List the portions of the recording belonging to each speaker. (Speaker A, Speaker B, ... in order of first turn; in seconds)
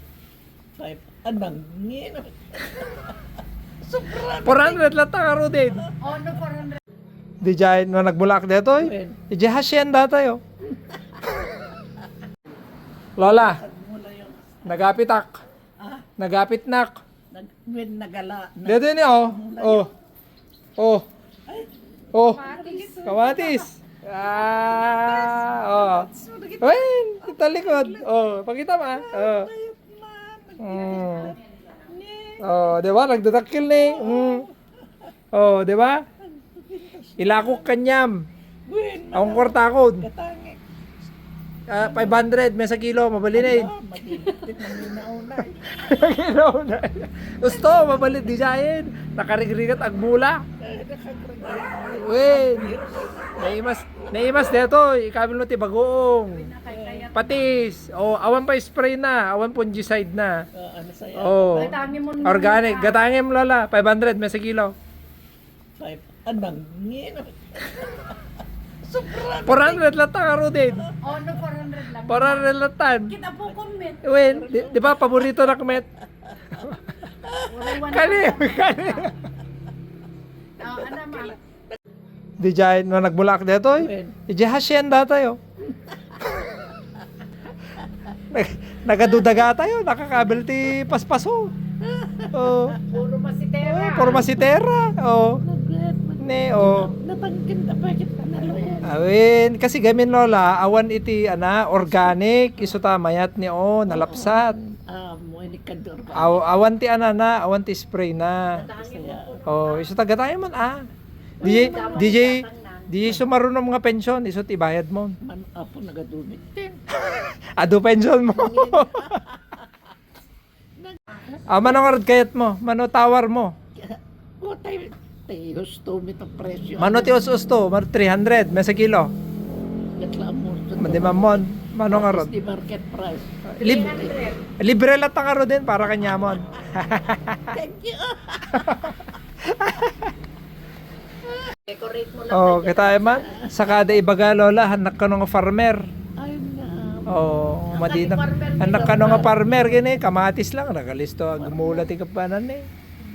Speaker A: 0.8-3.2, 3.8-4.9, 8.8-9.2, 13.2-14.9, 15.8-16.1, 17.3-19.9, 22.2-23.6, 24.4-28.1, 28.8-32.6, 33.7-34.5, 36.2-37.7, 38.7-40.6, 41.8-42.2, 43.3-45.8, 47.4-48.4, 50.6-54.5, 56.7-57.1, 60.5-62.0, 65.8-68.2, 68.8-69.9, 74.2-75.5, 76.3-76.6, 77.2-77.8, 80.7-81.4, 83.8-84.2, 85.7-86.7, 91.8-92.8, 93.7-94.5, 95.4-98.9, 101.8-102.7, 103.9-106.4, 108.8-109.4, 111.4-112.0, 115.2-116.8, 118.3-119.7, 120.8-121.4, 123.8-127.1, 130.0-134.2, 137.5-139.0, 143.1-143.9, 146.2-147.2, 148.6-149.7, 151.3-151.9
Speaker B: 4.4-5.9, 7.4-10.4, 13.2-13.6, 14.7-15.4, 16.2-17.0, 18.6-19.9, 20.8-21.1, 22.1-22.5, 23.0-26.1, 26.6-29.5, 30.6-31.4, 32.4-34.5, 35.3-36.0, 37.2-38.3, 39.1-40.1, 41.7-44.8, 45.7-50.4, 52.0-52.7, 53.4-56.5, 57.1-60.5, 61.1-64.7, 69.5-70.9, 72.0-73.2, 74.0-75.9, 77.8-79.1, 82.4-85.4, 88.3-91.5, 92.3-92.8, 93.6-95.4, 96.2-96.9, 98.8-104.6, 106.1-108.7, 109.5-110.9, 111.4-115.2, 117.0-119.2, 121.5-123.5, 126.8-129.1, 130.8-132.3, 133.5-134.0, 134.6-137.5, 138.5-140.1, 142.3-145.8, 147.1-152.7
Speaker C: 6.0-6.8, 22.3-23.0, 30.7-31.8, 56.3-57.5, 61.5-63.0, 71.0-72.6, 73.1-74.0, 77.4-79.1, 80.6-81.4, 92.9-94.2, 108.5-109.9, 111.4-113.2, 133.6-134.4, 141.7-143.2, 147.7-149.2